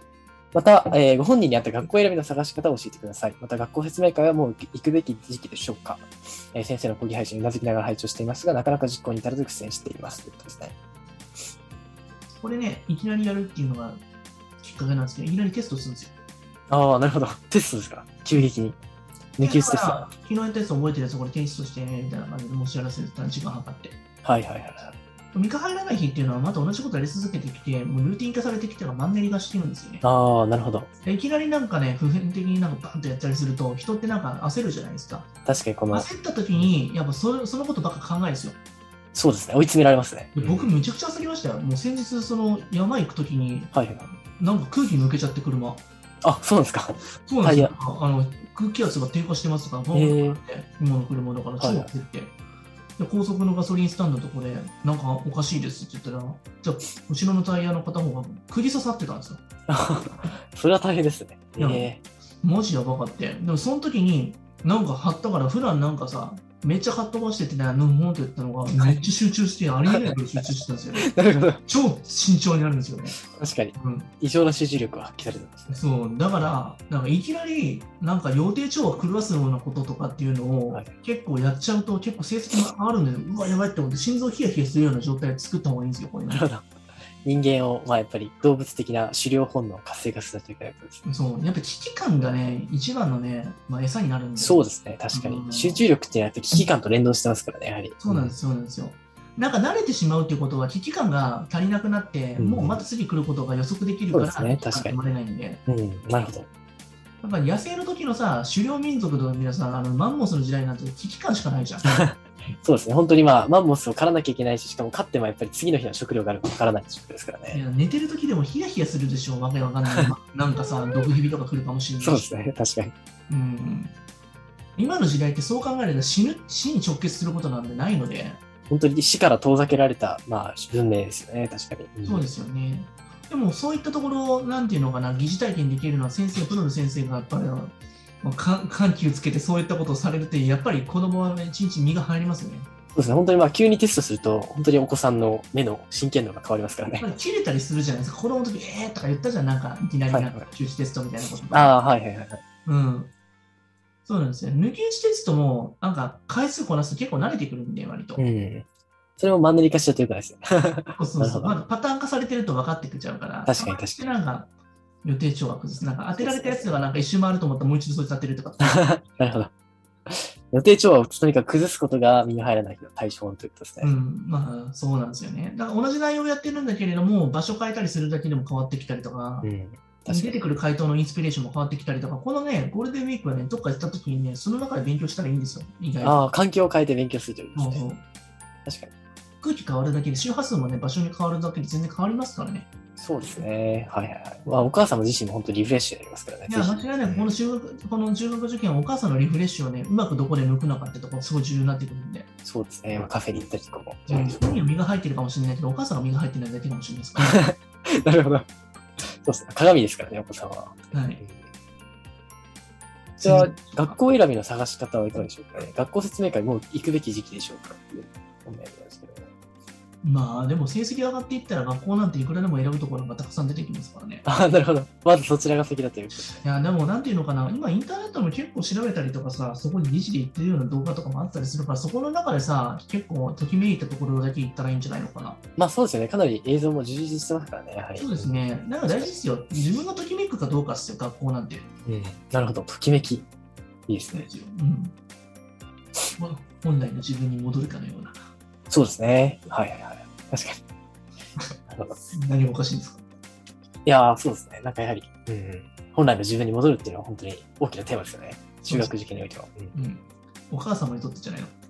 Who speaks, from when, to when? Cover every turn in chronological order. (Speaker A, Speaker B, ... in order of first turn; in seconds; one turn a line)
Speaker A: 0.5-10.7
Speaker B: 12.4-14.0
Speaker B: 14.6-16.1
Speaker A: 16.7-18.8
Speaker A: 19.4-20.1
Speaker B: 19.4-23.9
Speaker A: 24.2-24.9
Speaker B: 25.3-30.0
Speaker A: 30.0-30.9
Speaker B: 31.0-35.3
Speaker A: 35.5-36.7
Speaker B: 35.9-38.6
Speaker A: 39.1-40.7
Speaker B: 40.3-45.8
Speaker A: 43.7-44.1
Speaker A: 46.2-47.7
Speaker B: 47.3-52.4
Speaker A: 49.9-50.4
Speaker A: 51.6-51.9
Speaker B: 53.0-59.4
Speaker A: 59.7-62.0
Speaker B: 61.6-61.9
Speaker B: 62.4-71.1
Speaker A: 68.8-69.0
Speaker A: 69.9-71.6
Speaker B: 71.6-73.2
Speaker A: 73.3-75.8
Speaker B: 73.8-74.1
Speaker B: 75.7-86.4
Speaker A: 86.3-86.7
Speaker A: 87.2-91.0
Speaker B: 91.0-95.8
Speaker A: 94.4-98.3
Speaker B: 98.0-105.6
Speaker A: 102.4-102.8
Speaker A: 104.1-104.9
Speaker A: 105.7-106.5
Speaker B: 107.2-111.9
Speaker A: 111.8-117.6
Speaker B: 117.5-122.3
Speaker A: 122.0-122.9
Speaker B: 123.3-123.9
Speaker B: 124.8-128.4
Speaker A: 128.7-132.3
Speaker B: 132.0-142.7
Speaker A: 142.9-147.1
Speaker B: 147.0-151.8
Speaker A: 150.1-150.5
Speaker A: 151.5-152.4
Speaker B: 152.7-153.1
Speaker B: 154.1-158.2
Speaker A: 158.2-158.7
Speaker A: 159.2-161.6
Speaker B: 160.9-164.5
Speaker A: 163.4-164.0
Speaker B: 165.0-168.8
Speaker A: 166.1-166.9
Speaker A: 168.6-169.5
Speaker A: 170.1-173.9
Speaker B: 173.8-179.5
Speaker A: 179.4-180.5
Speaker B: 180.1-186.2
Speaker A: 186.0-187.8
Speaker B: 187.6-188.0
Speaker A: 188.7-188.9
Speaker B: 189.4-192.7
Speaker A: 193.0-197.3
Speaker B: 196.5-202.3
Speaker A: 202.4-204.4
Speaker B: 204.1-207.4
Speaker A: 207.2-208.5
Speaker A: 209.0-211.5
Speaker B: 210.9-211.2
Speaker B: 213.2-214.0
Speaker A: 213.2-219.3
Speaker B: 220.0-224.2
Speaker A: 224.2-226.4
Speaker B: 226.3-235.4
Speaker A: 235.6-239.1
Speaker B: 238.0-241.7
Speaker A: 241.9-243.2
Speaker A: 243.9-244.3
Speaker B: 244.1-244.9
Speaker B: 246.2-248.2
Speaker A: 248.7-250.6
Speaker A: 251.7-252.0
Speaker B: 252.1-253.1
Speaker A: 253.8-259.7
Speaker B: 259.7-261.5